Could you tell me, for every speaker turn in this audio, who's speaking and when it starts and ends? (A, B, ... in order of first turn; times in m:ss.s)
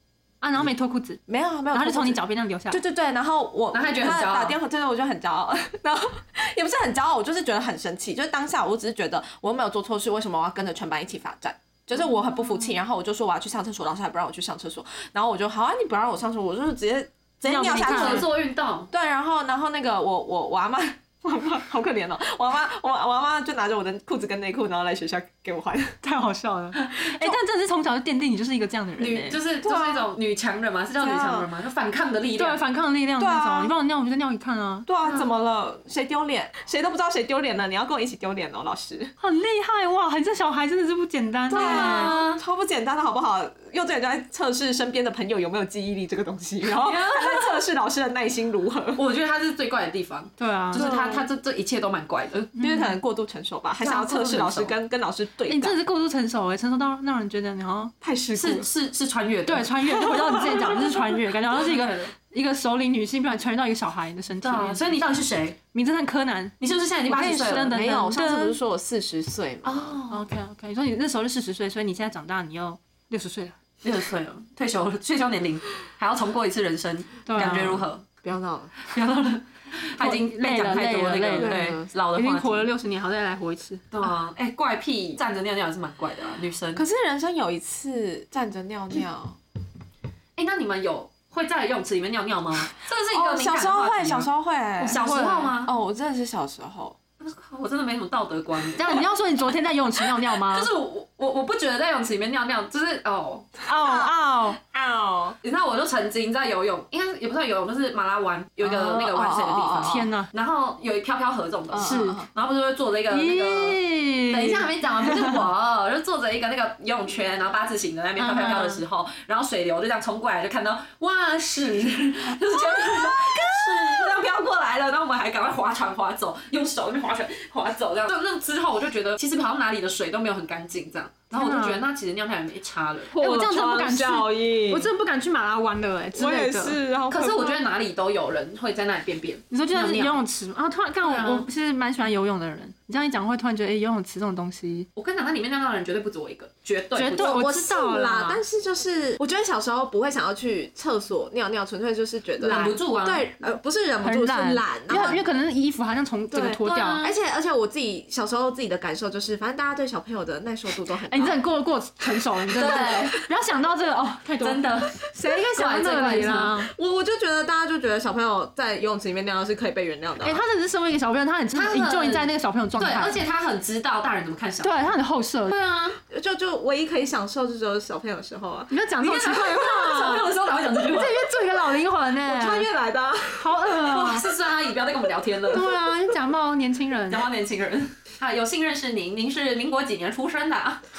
0:00.4-0:01.2 A
0:01.3-0:18.4 B
0:01.7-0:02.8 A
0:03.7-0:04.6 C
0:17.4-0:18.3 A
0:17.8-0:18.9 C
0:18.9-0:26.0 B
0:26.0-0:29.4 A
0:29.0-0:32.6 C
0:29.6-0:30.1 B
0:31.0-0:31.5 B
0:32.4-0:34.9 A
0:33.2-0:33.7 B
0:34.9-0:39.1 B
0:39.2-0:42.3 A
0:41.5-0:49.0 B
0:41.5-0:42.4 C
0:46.7-0:47.6 C
0:49.0-0:52.5 C
0:50.4-0:50.9 A
0:50.7-0:51.3 B
0:52.6-0:52.9 A
0:52.6-0:55.8 B
0:53.8-0:54.7 C
0:55.5-0:57.9 A
0:58.0-0:58.7 B
0:58.4-1:00.0 C
0:59.5-1:05.2 A
1:01.5-1:02.1 C
1:04.4-1:05.6 C
1:05.7-1:06.6 A
1:06.6-1:07.8 C
1:07.1-1:08.6 A
1:07.3-1:10.0 B
1:09.6-1:10.2 C
1:10.1-1:13.6 A
1:13.8-1:18.0 C
1:17.3-1:17.9 A
1:18.2-1:18.7 B
1:18.9-1:22.7 C
1:20.0-1:23.9 A
1:21.4-1:21.9 B
1:23.9-1:26.8 C
1:26.8-1:29.4 B
1:30.4-1:34.3 C
1:33.1-1:37.0 B
1:34.8-1:35.7 C
1:34.8-1:35.5 A
1:37.2-1:39.0 C
1:38.8-1:40.7 A
1:40.1-1:43.5 C
1:43.6-1:44.6 A
1:43.7-1:45.4 B
1:45.4-2:13.2 C
1:48.6-1:50.1 B
1:49.8-1:50.3 A
1:51.7-1:52.3 B
1:51.8-1:52.2 A
1:53.1-1:55.4 A
1:58.2-1:58.8 A
2:02.6-2:04.2 B
2:11.3-2:11.8 A
2:13.1-2:14.9 B
2:13.1-2:16.8 A
2:16.2-2:17.6 B
2:17.1-2:20.2 C
2:19.5-2:24.9 A
2:21.0-2:21.5 C
2:25.0-2:27.5 C
2:27.0-2:28.4 A
2:27.1-2:35.2 B
2:32.4-2:33.5 C
2:34.0-2:37.1 A
2:34.9-2:35.2 C
2:36.3-2:41.4 B
2:36.6-2:37.2 C
2:41.1-2:46.7 A
2:42.5-2:43.2 C
2:42.7-2:43.1 B
2:44.4-2:46.6 C
2:46.7-2:50.4 B
2:50.2-2:53.2 A
2:51.5-2:54.9 C
2:54.6-2:55.6 A
2:55.5-2:56.0 C
2:56.1-2:58.8 B
2:58.7-3:02.7 A
2:59.0-3:01.2 C
3:02.2-3:03.6 B
3:03.4-3:04.3 A
3:03.7-3:05.7 C
3:05.5-3:07.3 A
3:07.1-3:10.8 C